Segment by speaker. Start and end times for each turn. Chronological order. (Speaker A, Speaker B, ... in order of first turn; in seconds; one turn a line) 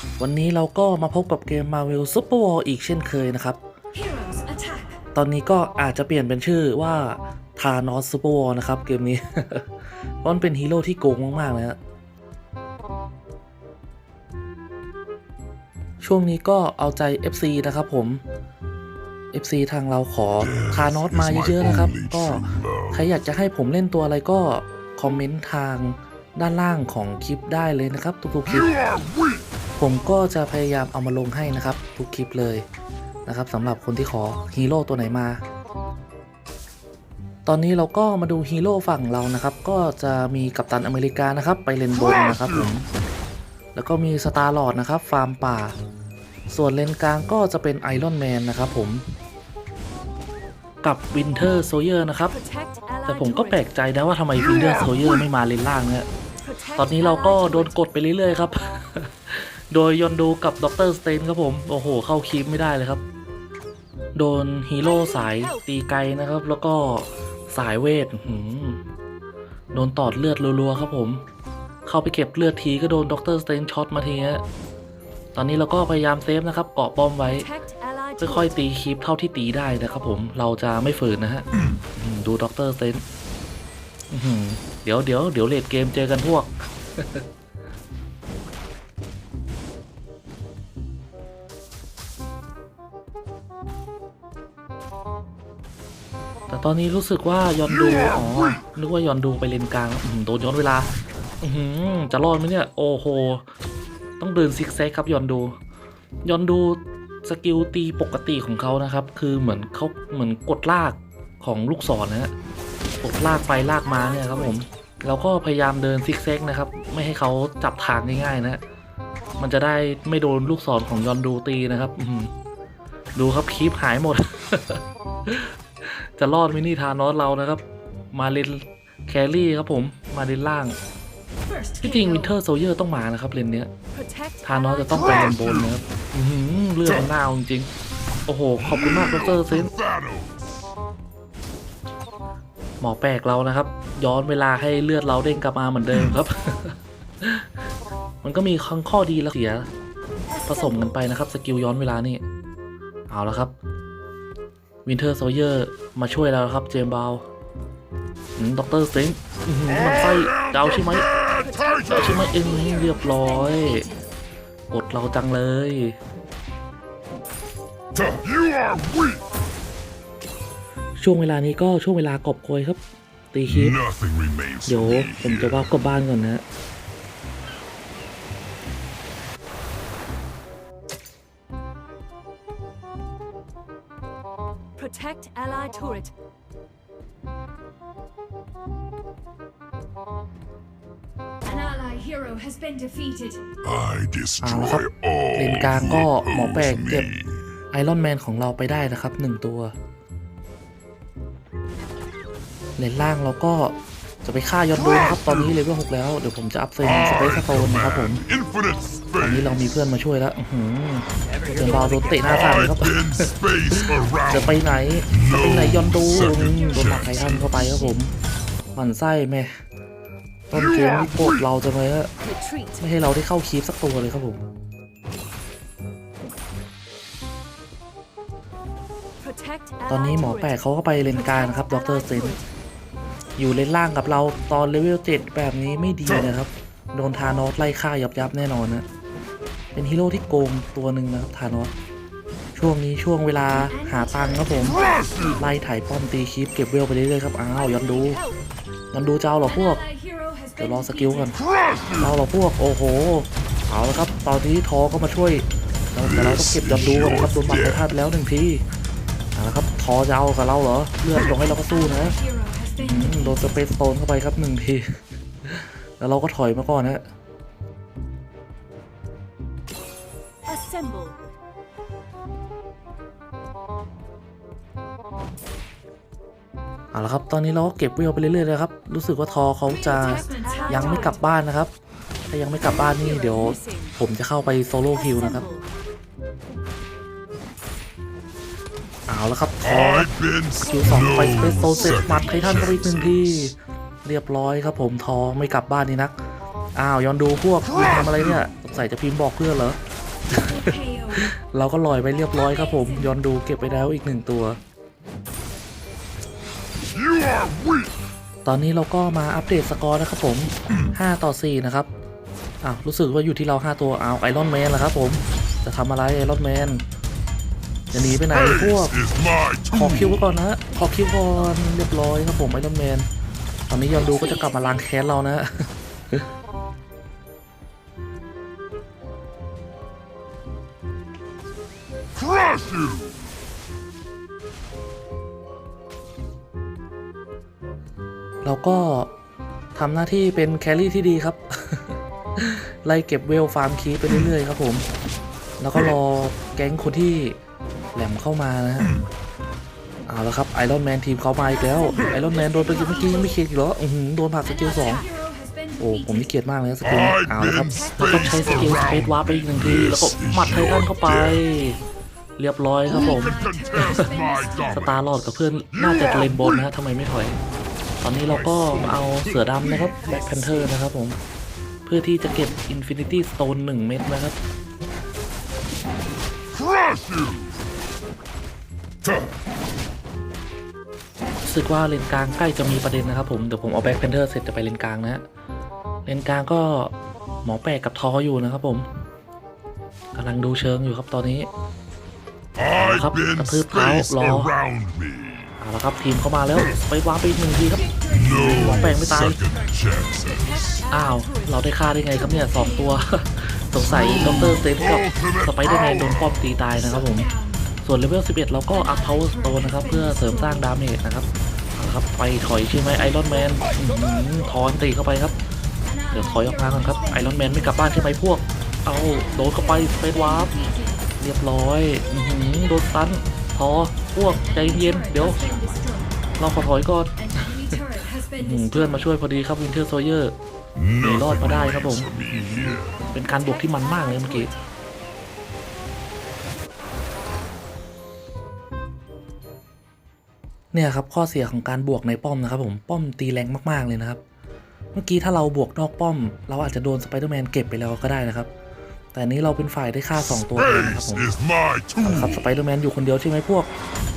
Speaker A: 0.2-3.6
Speaker B: 4.0-4.9
Speaker A: 5.1-11.8
Speaker A: 16.0-18.2
Speaker A: 19.3-28.7
Speaker C: 20.5-23.0
Speaker C: 28.6-29.4
Speaker A: 29.8-32.6
Speaker A: 33.2-35.4
Speaker A: 37.5-42.9
Speaker A: 43.7-45.7
Speaker A: 46.5-49.0
Speaker A: 50.8-52.3
Speaker A: 53.1-56.1
Speaker A: 56.8-63.0
Speaker A: 64.1-68.8
Speaker A: 69.7-71.2
Speaker A: 71.8-74.4
Speaker A: 75.3-77.5
Speaker B: 77.3-78.3
Speaker A: 78.2-83.0
Speaker A: 84.1-87.2
Speaker A: 96.5-100.9
Speaker A: 101.4-103.4
Speaker A: 104.2-105.5
Speaker A: 106.2-112.3
Speaker A: 113.0-118.6
Speaker B: 113.7-114.3
Speaker A: 119.4-122.3
Speaker A: 123.1-130.8
Speaker B: 131.5-132.3
Speaker A: 131.8-133.7
Speaker A: 134.4-137.7
Speaker A: 138.3-139.7
Speaker C: 138.9-140.3
Speaker A: 142.8-147.5
Speaker A: 148.2-149.7
Speaker A: 150.4-152.2
Speaker A: 153.1-153.5
Speaker A: 154.8-157.2
Speaker A: 158.3-161.1
Speaker C: 160.1-162.2
Speaker B: 161.4-163.9
Speaker A: 161.9-163.9
Speaker A: 164.7-165.9
Speaker C: 167.9-169.2
Speaker A: 171.0-172.8
Speaker A: 173.3-173.8
Speaker C: 173.5-175.6
Speaker A: 174.7-176.4
Speaker B: 184.8-186.1
Speaker B: 191.5-193.4
Speaker C: 193.6-197.3
Speaker A: 194.4-197.1
Speaker A: 197.7-199.7
Speaker A: 202.8-208.2
Speaker C: 206.8-209.5
Speaker A: 209.2-218.1
Speaker C: 212.6-214.4
Speaker C: 215.1-217.3
Speaker B: 216.3-217.1
Speaker A: 218.7-219.6
Speaker A: 220.5-222.1
Speaker A: 222.8-224.4
Speaker A: 229.9-232.4
Speaker A: 233.4-238.8
Speaker A: 239.7-241.7
Speaker A: 242.5-248.2
Speaker B: 243.8-245.0
Speaker A: 248.9-249.8
Speaker B: 249.8-251.3
Speaker A: 250.6-251.4
Speaker C: 251.6-252.0
Speaker A: 252.0-258.6
Speaker C: 256.3-257.8
Speaker A: 259.3-262.2
Speaker B: 261.5-263.4
Speaker A: 262.8-264.8
Speaker A: 265.4-267.0
Speaker A: 276.9-281.7
Speaker B: 280.3-281.1
Speaker A: 282.3-285.4
Speaker A: 289.1-290.1
Speaker C: 289.6-293.3
Speaker A: 290.6-296.1
Speaker B: 291.1-292.6
Speaker A: 296.8-299.8
Speaker A: 300.3-304.6
Speaker B: 300.4-301.2
Speaker C: 307.1-307.9
Speaker A: 308.4-311.9
Speaker A: 312.6-316.8
Speaker A: 317.9-319.0
Speaker C: 318.3-320.2
Speaker A: 319.7-323.1
Speaker A: 323.7-326.2
Speaker C: 332.3-333.0
Speaker A: 338.4-339.1
Speaker A: 339.7-344.8
Speaker A: 345.6-347.4
Speaker A: 347.9-348.9
Speaker A: 350.1-355.0
Speaker B: 351.9-352.8
Speaker B: 354.9-355.9
Speaker A: 355.8-361.8
Speaker C: 356.8-361.4
Speaker A: 362.4-364.1
Speaker B: 362.9-364.7
Speaker C: 363.0-364.9
Speaker A: 364.7-367.4
Speaker A: 368.0-371.2
Speaker A: 371.9-374.3
Speaker C: 376.6-377.5
Speaker A: 381.4-385.2
Speaker A: 386.1-388.9
Speaker A: 390.1-391.5
Speaker C: 392.6-395.5
Speaker A: 392.7-394.5
Speaker A: 395.6-399.4
Speaker B: 397.9-398.5
Speaker C: 398.1-400.7
Speaker B: 400.7-401.3
Speaker A: 400.9-407.3
Speaker C: 404.0-404.4
Speaker C: 405.0-406.1
Speaker B: 407.1-407.6
Speaker A: 407.8-415.4
Speaker B: 409.2-409.8
Speaker B: 415.9-417.6
Speaker A: 416.1-420.5
Speaker B: 419.8-421.0
Speaker A: 421.2-425.7
Speaker B: 424.6-426.1
Speaker A: 426.4-427.8
Speaker B: 427.3-428.7
Speaker A: 428.3-430.3
Speaker C: 430.8-432.9
Speaker A: 431.0-434.5
Speaker B: 433.4-434.5
Speaker A: 440.7-444.2
Speaker A: 444.9-448.5
Speaker A: 449.1-451.3
Speaker C: 450.5-452.3
Speaker A: 452.0-453.7